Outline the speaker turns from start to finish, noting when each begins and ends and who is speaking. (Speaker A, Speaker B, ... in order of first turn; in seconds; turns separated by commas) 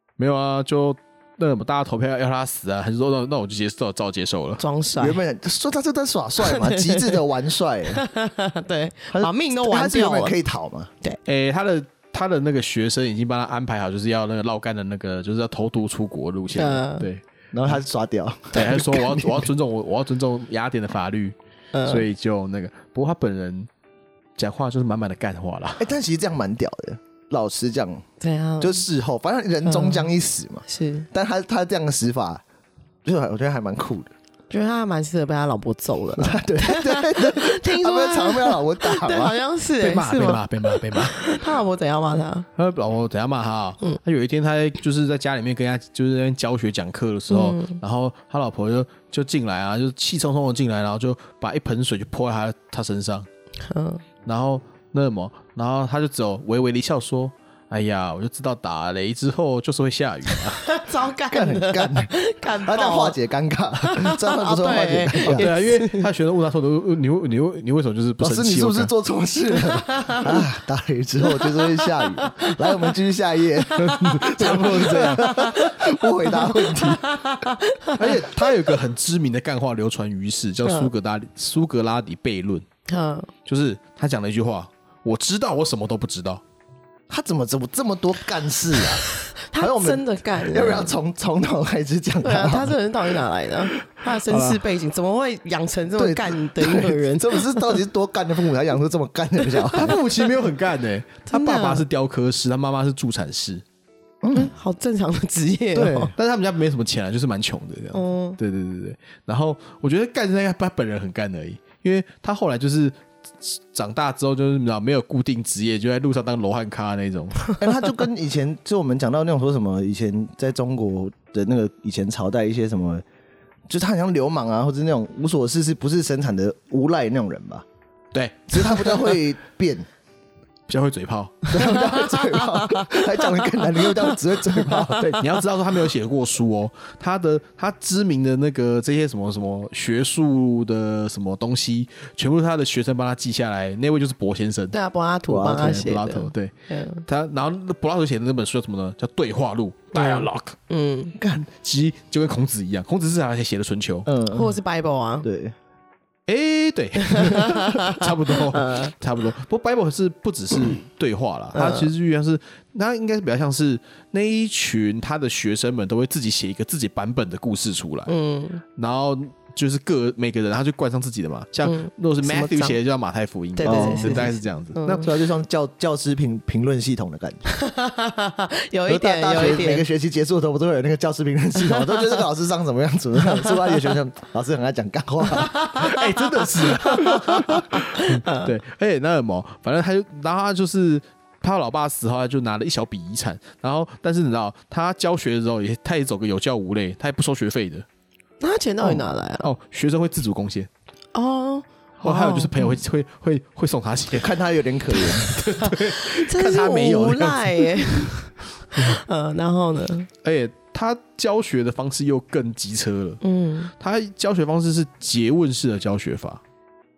Speaker A: 0.2-4.6, Speaker B: 4.6-5.2, Speaker C: 5.0-8.0, Speaker B: 6.4-7.2, Speaker B: 7.9-10.3, Speaker C: 9.1-10.9, Speaker A: 11.2-17.8, Speaker B: 16.5-17.1, Speaker C: 17.5-19.5, Speaker A: 18.5-21.4, Speaker B: 21.7-22.0, Speaker A: 21.9-23.7, Speaker A: 24.4-25.9, Speaker C: 25.8-28.1, Speaker B: 28.2-28.8, Speaker C: 28.6-32.4, Speaker B: 29.6-30.1, Speaker B: 30.6-31.1, Speaker C: 33.0-34.1, Speaker B: 34.5-42.5, Speaker C: 36.2-39.4, Speaker A: 39.8-41.4, Speaker A: 42.5-53.3, Speaker B: 47.3-47.8, Speaker B: 53.7-54.0, Speaker A: 54.2-60.7, Speaker B: 60.3-63.2, Speaker C: 61.3-62.1, Speaker C: 62.6-65.5, Speaker B: 63.8-66.1, Speaker A: 65.3-68.9, Speaker C: 68.2-77.2, Speaker B: 69.5-70.4, Speaker B: 71.2-72.9, Speaker A: 73.8-75.3, Speaker B: 74.5-78.1, Speaker A: 77.9-82.6, Speaker B: 80.6-80.9, Speaker B: 82.9-83.3, Speaker A: 83.5-86.4, Speaker C: 87.1-89.0, Speaker B: 89.3-90.9, Speaker C: 89.5-92.7, Speaker B: 92.2-97.8, Speaker A: 94.1-94.6, Speaker C: 96.0-100.0, Speaker B: 99.5-100.0, Speaker A: 99.7-103.6, Speaker B: 101.3-101.8, Speaker C: 104.2-104.5, Speaker B: 104.3-106.1, Speaker C: 105.7-106.1, Speaker A: 106.2-117.5, Speaker B: 107.9-108.4, Speaker C: 117.6-123.0, Speaker C: 123.7-127.7, Speaker A: 128.1-129.1, Speaker C: 128.5-129.8, Speaker A: 130.7-131.5, Speaker C: 131.5-135.1, Speaker B: 131.6-135.2, Speaker A: 135.0-144.8, Speaker B: 144.7-147.0, Speaker C: 145.3-145.9, Speaker A: 145.5-146.5, Speaker A: 147.1-150.6, Speaker B: 149.9-151.1, Speaker C: 151.2-151.5, Speaker A: 151.5-154.1, Speaker C: 154.1-154.6, Speaker B: 154.3-155.3, Speaker C: 155.2-155.5, Speaker A: 156.3-168.1, Speaker B: 157.0-158.9, Speaker B: 161.5-161.9, Speaker B: 168.1-168.6, Speaker A: 168.8-175.1, Speaker B: 171.6-172.8, Speaker B: 173.6-175.1, Speaker C: 173.6-174.3, Speaker C: 175.0-177.4, Speaker B: 177.5-179.8, Speaker C: 178.9-185.5, Speaker B: 181.6-182.0, Speaker B: 183.2-183.9, Speaker B: 185.3-188.5, Speaker A: 185.7-197.8, Speaker B: 198.4-199.5, Speaker A: 199.4-200.7, Speaker B: 201.1-202.6, Speaker A: 202.0-204.4, Speaker C: 204.1-205.3, Speaker A: 205.1-208.1, Speaker B: 205.3-210.1, Speaker A: 210.2-213.2, Speaker B: 213.2-213.7, Speaker A: 213.7-216.4